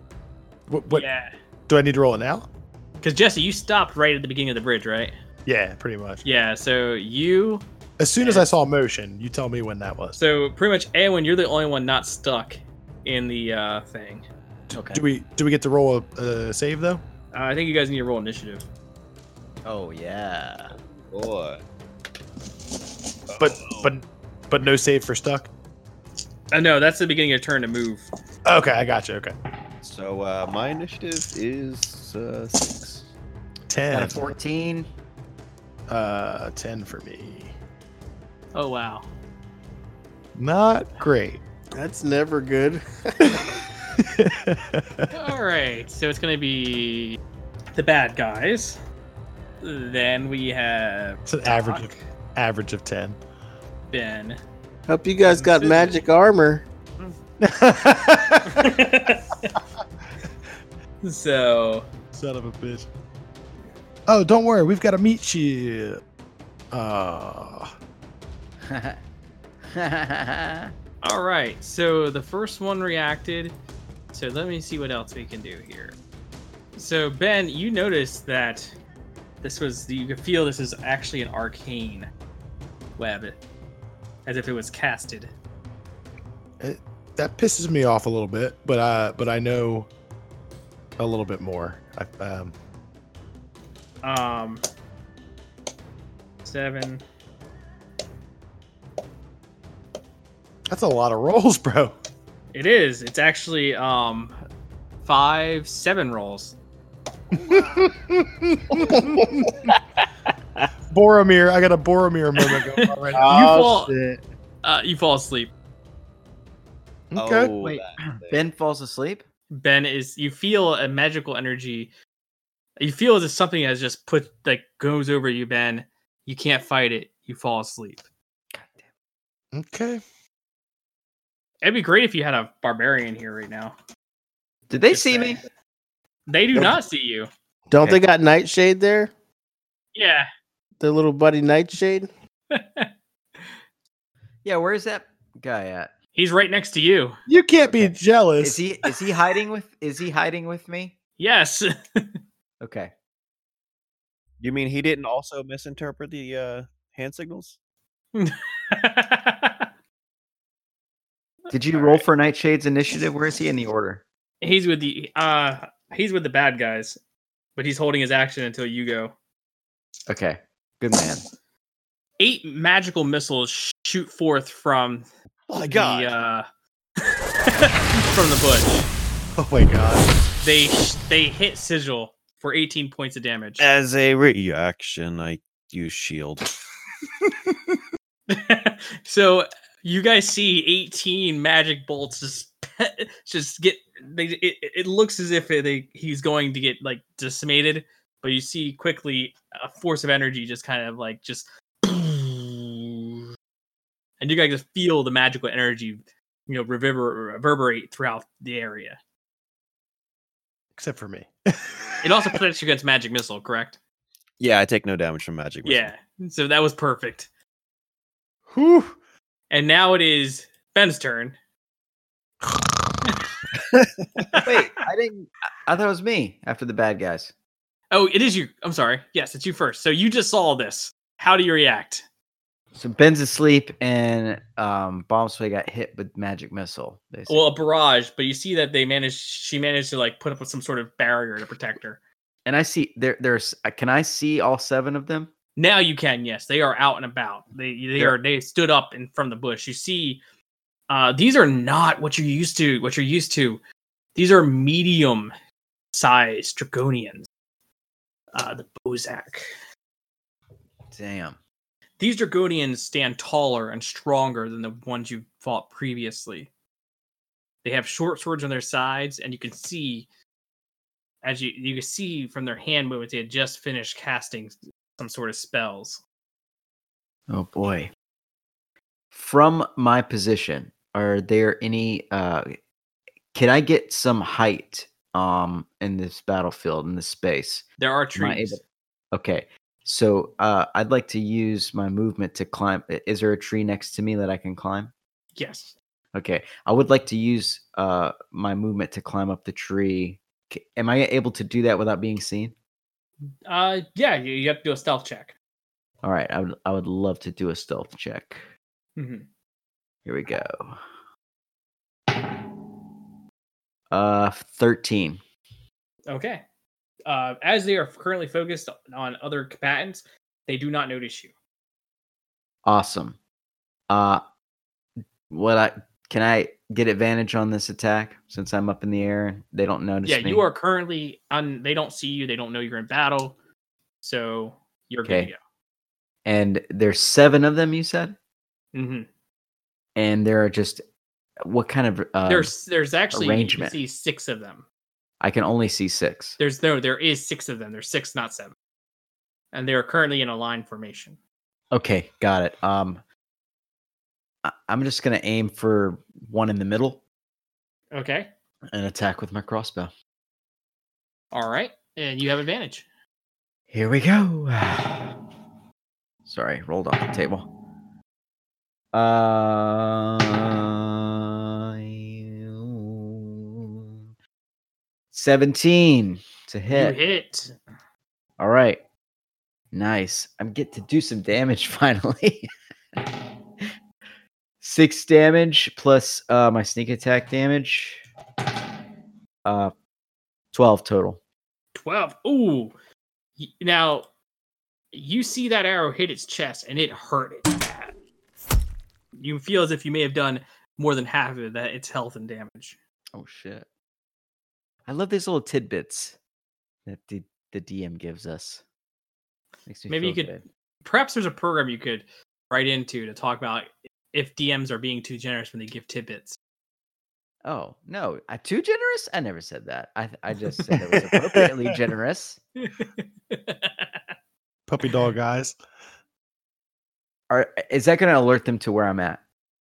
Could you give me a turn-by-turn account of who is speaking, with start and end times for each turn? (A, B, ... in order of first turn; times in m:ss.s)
0:00.7-0:01.1 A
0:00.9-0:01.3 B
0:01.7-0:02.5 A
0:03.0-0:05.1 B
0:05.4-0:06.2 A
0:06.2-0:07.6 B
0:08.0-0:10.2 A
0:08.2-0:08.4 B
0:10.1-0:14.2 B
0:14.7-0:15.0 C
0:14.7-0:17.0 A
0:17.3-0:18.6 B
0:19.6-0:20.8 C
0:21.1-0:21.6 D
0:23.3-0:23.9 D
0:23.4-0:25.5 A
0:26.5-0:28.1 B
0:28.4-0:29.3 A
0:29.8-0:33.0 D
0:33.7-0:34.2 A
0:33.9-0:34.9 C
0:35.9-0:37.5 A
0:38.5-0:39.1 B
0:40.3-0:41.4 A
0:41.8-0:43.4 E
0:44.0-0:45.1 A
0:45.1-0:47.2 B
0:47.7-0:48.8 B
0:49.6-0:52.0 B
0:51.3-0:53.2 A
0:53.9-0:54.4 B
0:54.9-0:56.6 E
0:55.4-0:55.9 B
0:57.4-0:58.8 A
0:58.5-0:59.6 B
1:01.0-1:01.9 B
1:02.1-1:02.9 A
1:04.1-1:06.0 A
1:06.7-1:07.7 A
1:08.6-1:09.0 C
1:09.7-1:10.7 C
1:11.0-1:13.6 B
1:14.1-1:16.0 B
1:16.8-1:18.7 B
1:19.4-1:22.1 B
1:23.0-1:23.4 B
1:24.2-1:25.3 B
1:26.6-1:29.9 A
1:31.0-1:32.5 A
1:34.0-1:34.6 B
1:36.4-1:37.0 B
1:40.7-1:42.0 A
1:42.5-1:44.4 B
1:45.0-1:46.6 B
1:47.3-1:49.7 A
1:47.4-1:47.9 B
1:50.9-1:53.3 A
1:52.4-1:53.9 B
1:53.1-1:54.2 E
1:54.6-1:55.5 B
1:57.1-1:57.5 A
1:57.2-1:58.4 D
1:57.6-1:59.2 C
1:59.5-2:01.9 B
2:02.8-2:08.0 B
2:08.5-2:08.8 C
2:09.5-2:10.0 A
2:11.6-2:13.8 B
2:14.7-2:15.4 C
2:14.9-2:15.5 B
2:16.3-2:17.3 B
2:17.7-2:19.1 E
2:19.9-2:20.3 B
2:20.8-2:22.1 E
2:22.5-2:23.5 B
2:24.4-2:25.9 C
2:26.1-2:27.2 B
2:27.3-2:28.6 A
2:27.7-2:31.0 C
2:31.2-2:32.1 B
2:32.6-2:32.9 C
2:34.4-2:37.6 D
2:38.1-2:39.7 B
2:41.5-2:44.0 C
2:41.7-2:42.0 B
2:44.4-2:47.0 B
2:47.6-2:49.1 B
2:50.1-2:51.2 C
2:52.2-2:55.1 B
2:55.5-2:56.1 D
2:55.6-2:56.4 B
2:57.5-2:58.9 B
2:59.4-3:00.1 A
3:00.4-3:03.6 B
3:03.6-3:06.4 D
3:08.3-3:23.2 B
3:24.2-3:29.0 B
3:30.7-3:32.3 A
3:32.0-3:33.8 B
3:34.4-3:35.9 D
3:35.6-3:37.3 B
3:38.5-3:39.0 A
3:39.5-3:41.4 B
3:44.4-3:47.3 C
3:47.9-3:52.0 B
3:52.7-3:57.4 C
3:57.3-4:02.0 B
4:02.4-4:05.3 C
4:05.6-4:10.2 B
4:10.9-4:13.6 B
4:14.1-4:15.3 B
4:15.9-4:17.3 B
4:18.3-4:19.4 B
4:20.9-4:21.4 C
4:22.0-4:26.5 B
4:27.6-4:30.1 B
4:31.2-4:36.0 B
4:37.3-4:37.9 C
4:39.1-4:42.5 C
4:43.3-4:48.6 C
4:47.8-4:48.6 B
4:49.1-4:54.9 C
4:55.4-4:55.7 B
4:56.1-5:02.5 C
5:03.5-5:05.3 B
5:06.0-5:08.5 C
5:09.0-5:09.2 B
5:10.0-5:10.8 C
5:13.9-5:15.2 C
5:16.1-5:16.4 B
5:17.0-5:21.3 B
5:22.6-5:23.2 C
5:23.9-5:24.2 C
5:25.3-5:30.5 C
5:30.0-5:33.4 B
5:34.0-5:35.4 B
5:35.0-5:35.3 C
5:36.2-5:38.2 C
5:38.7-5:39.1 B
5:40.0-5:40.8 C
5:41.4-5:42.5 C
5:42.2-5:44.6 B
5:43.1-5:43.8 C
5:45.2-5:46.4 C
5:46.4-5:48.5 B
5:49.5-5:51.2 B
5:51.7-5:53.0 C
5:54.4-5:57.0 C
5:57.9-5:58.3 B
5:58.7-5:59.9 C
6:01.3-6:02.8 B
6:03.7-6:05.1 C
6:06.2-6:07.5 C
6:08.9-6:13.8 C
6:15.1-6:17.0 C
6:16.7-6:17.5 B
6:18.4-6:18.8 C
6:19.7-6:23.7 C
6:24.6-6:28.0 C
6:29.4-6:29.7 C
6:30.5-6:31.2 C
6:31.7-6:32.7 B
6:33.4-6:34.0 B
6:34.9-6:37.9 B
6:39.1-6:42.8 B
6:43.1-6:43.7 C
6:44.9-6:46.2 C
6:46.8-6:48.6 C
6:49.7-6:50.4 C
6:49.9-6:50.3 B
6:50.8-6:56.4 B
6:57.4-7:02.4 C
7:01.1-7:01.5 A
7:02.6-7:04.0 B
7:04.7-7:05.6 A
7:07.3-7:09.2 C